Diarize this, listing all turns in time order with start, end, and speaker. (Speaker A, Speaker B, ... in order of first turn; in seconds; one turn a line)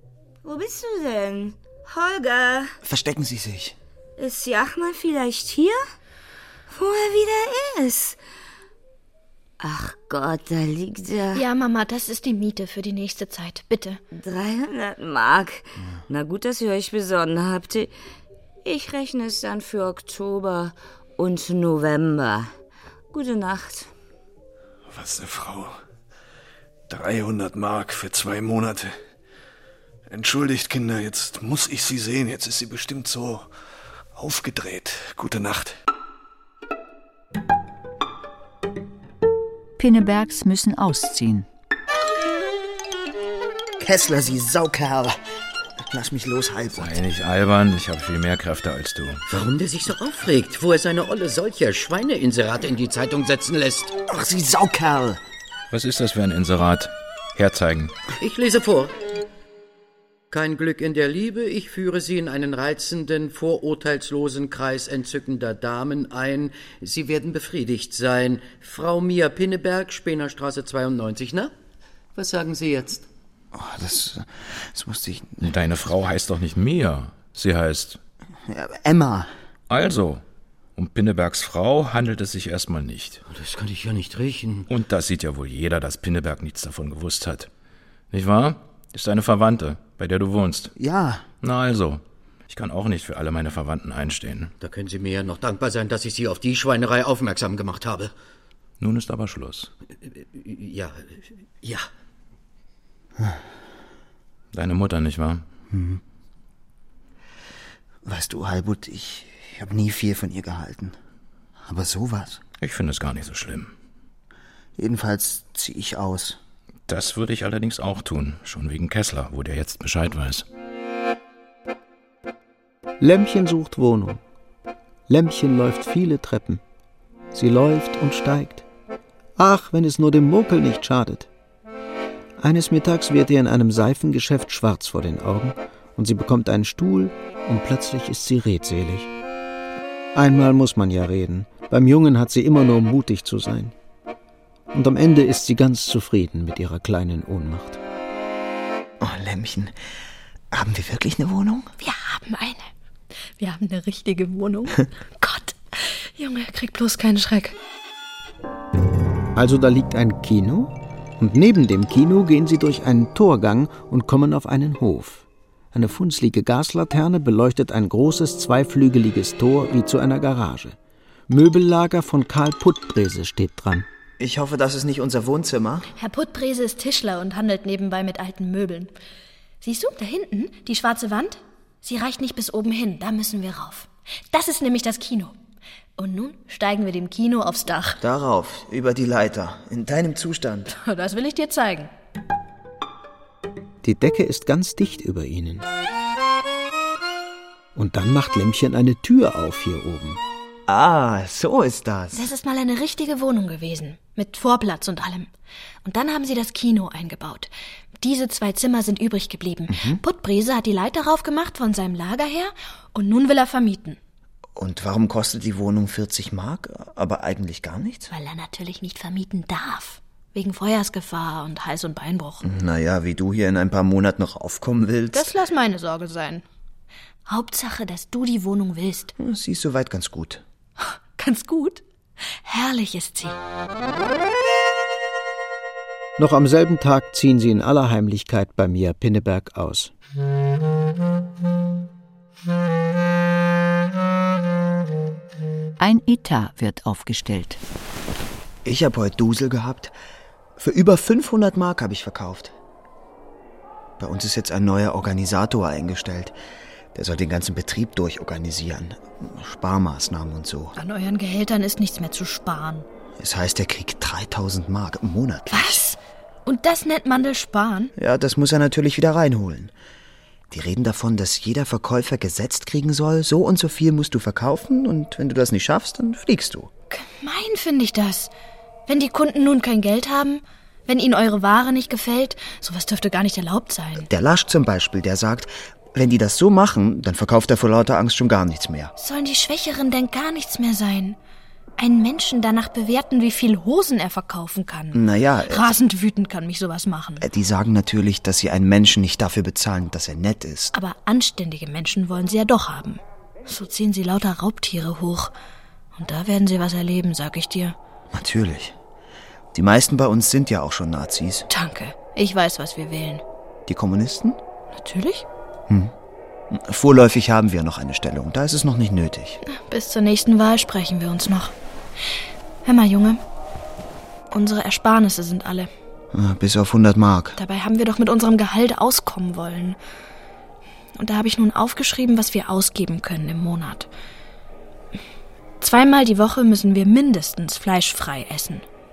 Speaker A: 0.4-2.7
Speaker B: 2.8-3.7
Speaker A: 4.2-5.8
Speaker A: 6.7-8.2
Speaker A: 9.6-11.4
Speaker C: 11.3-14.0
Speaker A: 14.1-17.9
Speaker A: 18.6-22.5
Speaker A: 23.1-23.9
Speaker D: 24.9-25.8
Speaker D: 26.9-28.9
Speaker D: 30.1-33.5
Speaker D: 34.1-35.8
Speaker E: 39.8-41.5
Speaker B: 43.8-45.1
Speaker B: 45.9-47.0
Speaker F: 46.8-49.2
Speaker G: 49.3-54.0
Speaker B: 54.1-55.2
Speaker F: 55.7-57.9
Speaker G: 58.2-58.9
Speaker G: 60.3-71.5
Speaker G: 72.1-73.0
Speaker B: 73.5-75.4
Speaker F: 75.4-78.0
Speaker B: 78.5-79.3
Speaker F: 79.7-80.2
Speaker F: 80.8-83.2
Speaker G: 83.2-84.7
Speaker F: 84.7-87.5
Speaker F: 88.1-90.7
Speaker B: 90.8-91.2
Speaker F: 91.4-94.5
Speaker G: 94.6-98.1
Speaker F: 98.8-99.7
Speaker G: 100.0-101.8
Speaker F: 104.5-105.4
Speaker B: 105.7-106.0
Speaker B: 108.0-111.0
Speaker B: 111.6-112.4
Speaker F: 112.6-113.7
Speaker B: 114.8-116.4
Speaker F: 116.9-120.4
Speaker H: 123.0-124.2
Speaker H: 125.1-126.6
Speaker H: 127.3-128.6
Speaker H: 129.4-131.3
Speaker H: 132.4-139.1
Speaker H: 140.1-143.7
Speaker H: 144.7-147.8
Speaker B: 149.0-149.7
Speaker B: 150.5-151.7
Speaker C: 151.8-152.7
Speaker C: 153.4-157.5
Speaker H: 159.3-170.8
Speaker H: 171.3-173.9
Speaker B: 174.2-175.9
Speaker C: 176.0-178.9
Speaker C: 179.6-185.3
Speaker C: 186.0-188.0
Speaker B: 188.0-190.7
Speaker C: 190.7-191.9
Speaker H: 193.8-195.7
Speaker H: 197.7-200.2
Speaker B: 200.7-202.3
Speaker C: 202.1-205.3
Speaker C: 205.8-214.0
Speaker B: 209.7-210.0
Speaker B: 214.6-218.1
Speaker C: 218.1-222.4
Speaker B: 222.4-225.3
Speaker C: 225.1-226.4
Speaker C: 227.3-229.1
Speaker B: 229.2-230.4
Speaker C: 230.8-231.8
Speaker C: 232.4-233.3
Speaker H: 236.2-239.9
Speaker E: 245.8-247.6
Speaker B: 248.6-249.9
Speaker B: 250.6-252.5
Speaker B: 254.0-256.3
Speaker B: 256.9-260.7
Speaker C: 260.8-262.9
Speaker B: 263.2-265.8
Speaker C: 265.5-267.9
Speaker B: 267.9-269.7
Speaker B: 270.5-276.7
Speaker C: 276.9-278.3
Speaker C: 278.9-284.1
Speaker B: 284.0-288.9
Speaker C: 289.0-291.2
Speaker C: 291.8-297.2
Speaker B: 294.9-295.7
Speaker B: 297.2-300.7
Speaker C: 300.7-305.3
Speaker C: 305.9-307.8
Speaker B: 308.1-308.8
Speaker B: 309.5-311.5
Speaker C: 311.5-313.2
Speaker B: 313.7-314.4
Speaker C: 314.7-315.2
Speaker B: 316.5-319.4
Speaker C: 319.4-321.5
Speaker C: 322.6-323.2
Speaker C: 324.3-325.7
Speaker B: 326.1-327.4
Speaker C: 327.4-329.8
Speaker C: 330.9-333.9
Speaker C: 335.6-338.6